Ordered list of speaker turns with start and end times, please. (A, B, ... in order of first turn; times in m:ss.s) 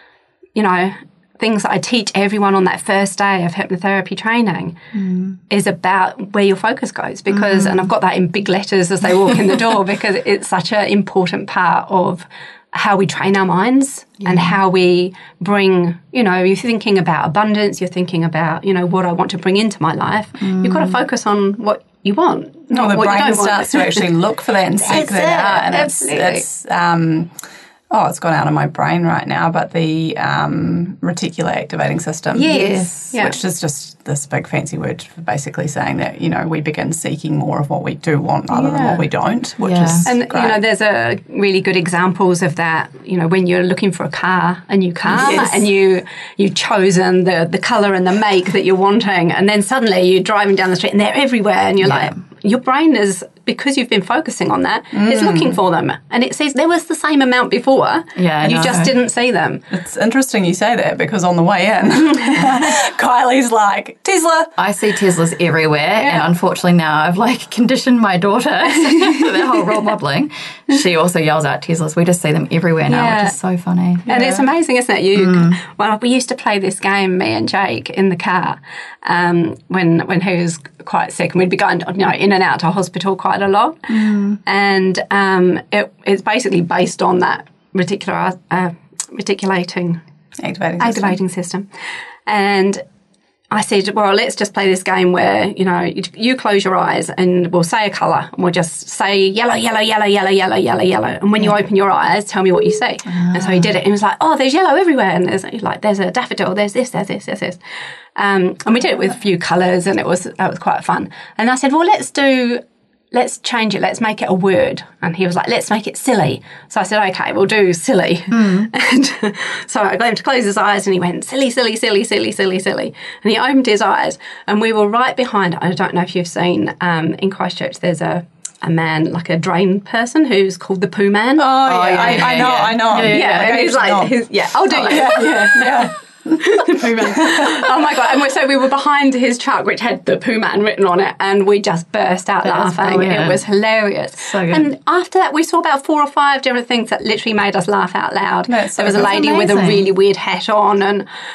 0:00.6-0:04.8 A
0:04.9-0:05.4 B
0:05.5-0:24.1 A
0:07.3-0:07.9 B
0:14.2-0:14.6 B
0:20.4-0:21.0 B
0:22.7-0:27.3 C
0:24.8-0:26.4 A
0:27.9-0:40.6 C
0:32.3-0:33.4 A
0:32.4-0:33.1 B
0:38.5-0:39.0 A
0:39.6-0:40.1 B
0:40.0-0:59.6 A
0:45.1-0:45.6 B
0:51.8-0:52.2 B
0:54.9-0:55.6 C
0:58.2-0:58.9 B
0:59.7-1:04.5 C
1:04.6-1:14.1 B
1:06.0-1:06.3 A
1:08.7-1:09.8 A
1:12.9-1:13.4 A
1:14.1-1:23.9 A
1:14.1-1:14.4 C
1:15.2-1:15.6 B
1:23.9-1:24.4 B
1:24.4-1:30.0 A
1:30.4-1:31.2 C
1:30.8-1:32.8 A
1:33.5-1:47.6 A
1:43.1-1:43.7 B
1:48.2-2:31.0 A
1:58.3-1:58.7 B
2:11.4-2:14.2 C
2:11.7-2:13.5 B
2:14.7-2:17.8 C
2:22.4-2:23.4 B
2:24.2-2:24.7 B
2:28.5-2:29.2 C
2:28.9-2:29.9 B